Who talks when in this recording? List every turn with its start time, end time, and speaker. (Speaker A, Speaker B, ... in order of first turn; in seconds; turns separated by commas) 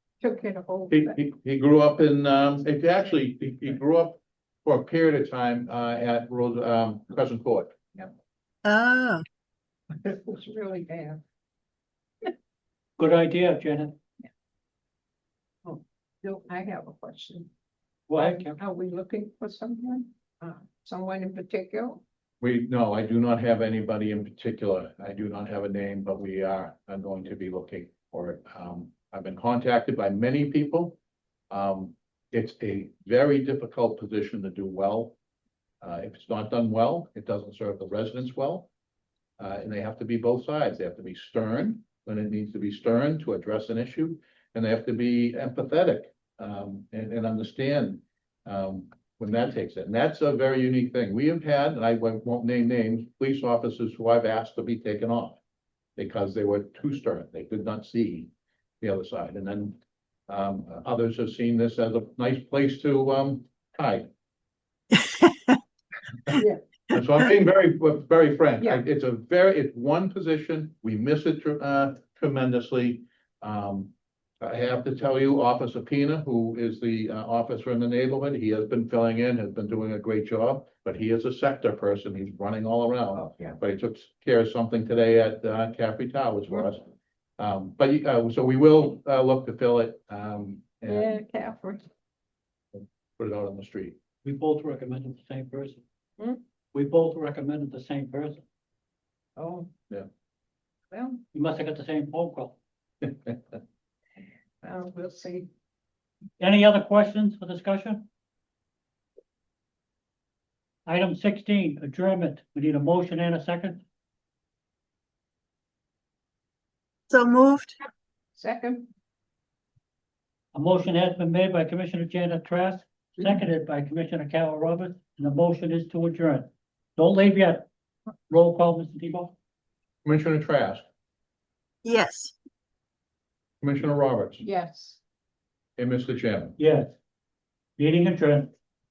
Speaker A: 0.2-1.2, Speaker B: 0.9-8.1, Speaker C: 8.6-9.2, Speaker A: 10.0-11.2, Speaker D: 13.0-13.9, Speaker A: 15.7-17.5, Speaker D: 18.1-18.6, Speaker A: 18.2-22.0, Speaker B: 22.4-30.9, Speaker B: 31.5-35.2, Speaker B: 35.8-38.7, Speaker B: 39.4-55.4, Speaker B: 56.0-58.3, Speaker B: 58.8-59.8, Speaker B: 60.3-64.1, Speaker C: 65.0-65.6, Speaker A: 66.3-66.6, Speaker B: 66.9-86.8, Speaker B: 87.4-91.1, Speaker A: 90.8-91.9, Speaker B: 93.2-94.0, Speaker D: 94.2-95.8, Speaker D: 96.7-98.4, Speaker A: 99.4-99.7, Speaker A: 100.9-101.2, Speaker D: 101.3-102.6, Speaker A: 104.6-105.5, Speaker D: 106.4-108.1, Speaker D: 110.8-113.8, Speaker C: 117.1-117.8, Speaker A: 118.3-118.9, Speaker D: 120.5-127.7, Speaker D: 128.3-129.3, Speaker B: 130.1-130.8, Speaker C: 131.8-132.4, Speaker B: 133.6-134.4, Speaker A: 134.4-135.0, Speaker B: 135.8-136.6, Speaker D: 136.6-136.9, Speaker D: 137.8-138.5